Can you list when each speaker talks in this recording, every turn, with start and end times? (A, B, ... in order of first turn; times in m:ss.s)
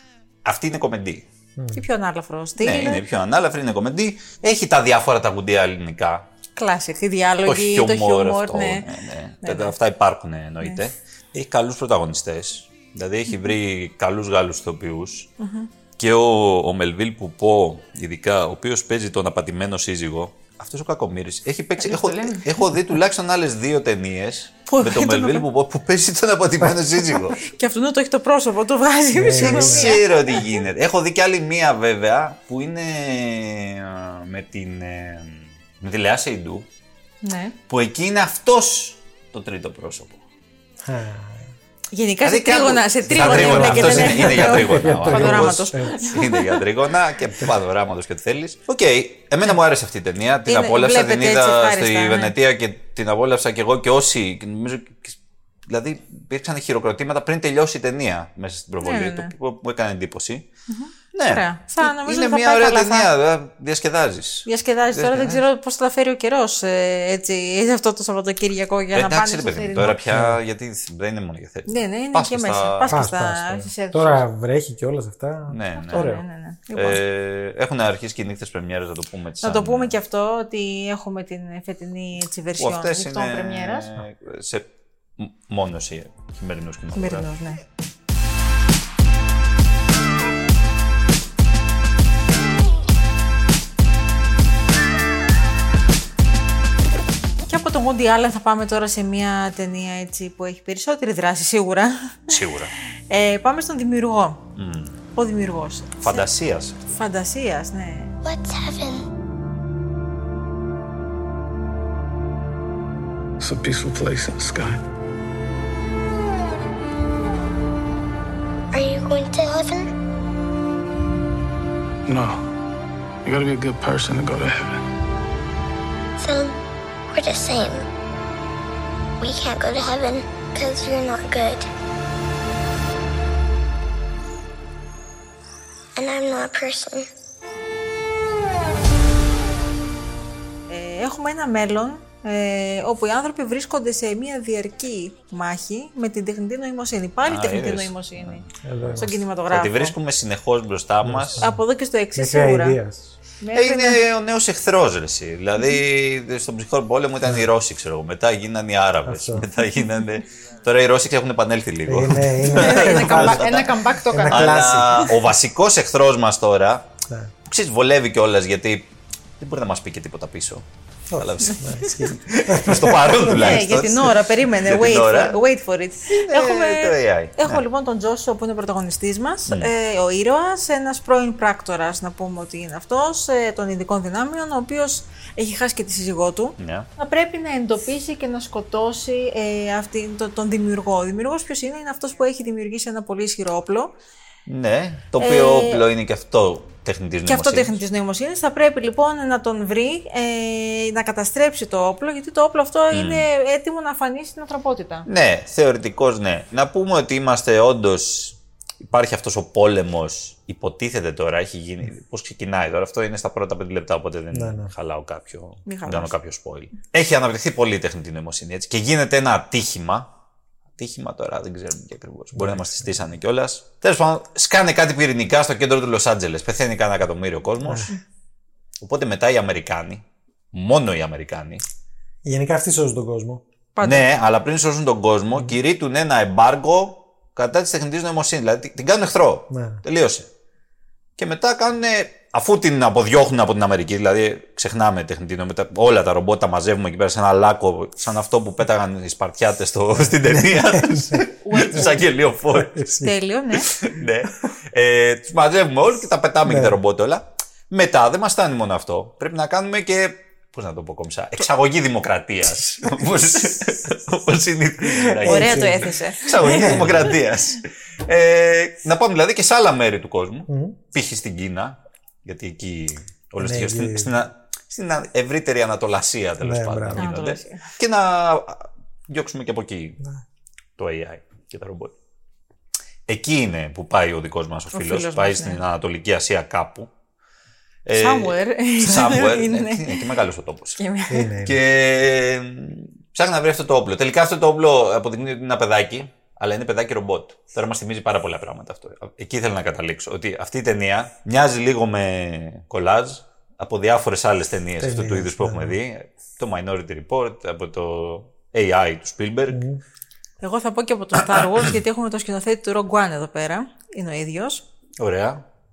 0:00.4-0:01.3 A
0:01.6-0:01.8 B
0:01.7-0:03.0 C
0:02.6-0:06.3 A
0:06.6-0:08.9 C
0:07.4-0:15.3 A
0:09.4-0:09.7 C
0:15.4-0:15.7 C
0:16.0-0:27.4 A
0:21.8-0:22.7 C
0:24.7-0:25.5 C
0:27.4-0:30.5 C
0:29.1-0:30.0 B
0:29.4-0:36.7 A
0:37.2-0:37.6 C
0:37.7-0:40.2 A
0:40.8-0:41.5 B
0:41.9-0:46.6 C
0:42.2-1:00.5 A
0:43.1-0:46.0 B
0:50.5-0:52.3 C
0:58.8-0:59.3 C
1:00.7-1:03.1 C
1:01.1-1:05.4 A
1:04.5-1:10.0 C
1:08.9-1:13.0 A
1:09.8-1:10.4 B
1:11.7-1:14.2 C
1:12.9-1:16.2 B
1:15.5-1:16.2 A
1:15.8-1:17.0 C
1:16.7-1:20.0 A
1:19.4-1:23.9 C
1:22.6-1:27.3 A
1:26.9-1:27.6 C
1:37.5-1:42.4 C
1:42.3-1:42.7 A
1:43.1-1:44.4 C
1:44.6-1:45.0 A
1:45.2-1:46.3 C
1:46.0-1:46.9 A
1:46.9-1:48.2 C
1:48.2-1:49.0 D
1:53.4-1:54.8 E
1:58.7-1:59.9 D
2:02.1-2:02.4 E
2:03.2-2:04.8 E
2:06.2-2:06.6 D
2:07.1-2:07.8 D
2:09.2-2:11.7 D
2:16.0-2:17.1 D
2:20.7-2:28.4 C
2:27.3-2:31.4 A
2:28.6-2:29.1 B
2:29.0-2:30.0 C
2:31.0-2:31.6 B
2:31.4-2:32.8 C
2:32.2-2:33.2 B
2:33.4-2:34.0 C
2:33.5-2:46.9 A
2:39.1-2:39.5 B
2:41.9-2:45.1 B
2:42.6-2:44.8 C
2:47.5-2:50.6 A
2:51.1-2:53.8 B
2:51.2-2:55.4 A
2:53.2-3:13.9 C
2:56.1-2:57.6 A
3:06.6-3:06.9 A
3:14.5-3:17.7 A
3:15.2-3:15.8 C
3:17.3-3:25.1 C
3:22.9-3:23.3 A
3:25.1-3:40.1 A
3:34.3-3:34.7 B
3:35.7-3:36.1 C
3:40.8-3:47.9 A
3:42.3-3:43.0 B
3:47.6-3:47.9 B
3:48.8-3:51.6 A
3:52.2-3:53.4 B
3:53.8-3:54.1 C
3:53.8-4:00.3 A
3:59.5-3:59.8 B
4:01.2-4:12.8 A
4:10.2-4:11.2 B
4:11.4-4:12.0 C
4:12.5-4:13.2 B
4:13.0-4:13.7 C
4:13.7-4:40.0 A
4:16.4-4:16.8 B
4:25.2-4:27.2 B
4:25.2-4:27.2 C
4:30.5-4:30.8 B
4:33.4-4:34.2 B
4:36.4-4:37.1 B
4:37.0-4:37.6 C
4:40.8-4:41.9 A
4:43.1-4:46.9 A
4:44.7-4:45.6 C
4:47.9-4:50.8 A
4:48.0-4:50.0 C
4:50.8-4:51.3 C
4:51.1-4:51.6 B
4:51.4-5:09.6 A
5:04.8-5:05.8 B
5:09.5-5:09.8 B
5:10.4-5:14.6 C
5:15.0-5:15.4 A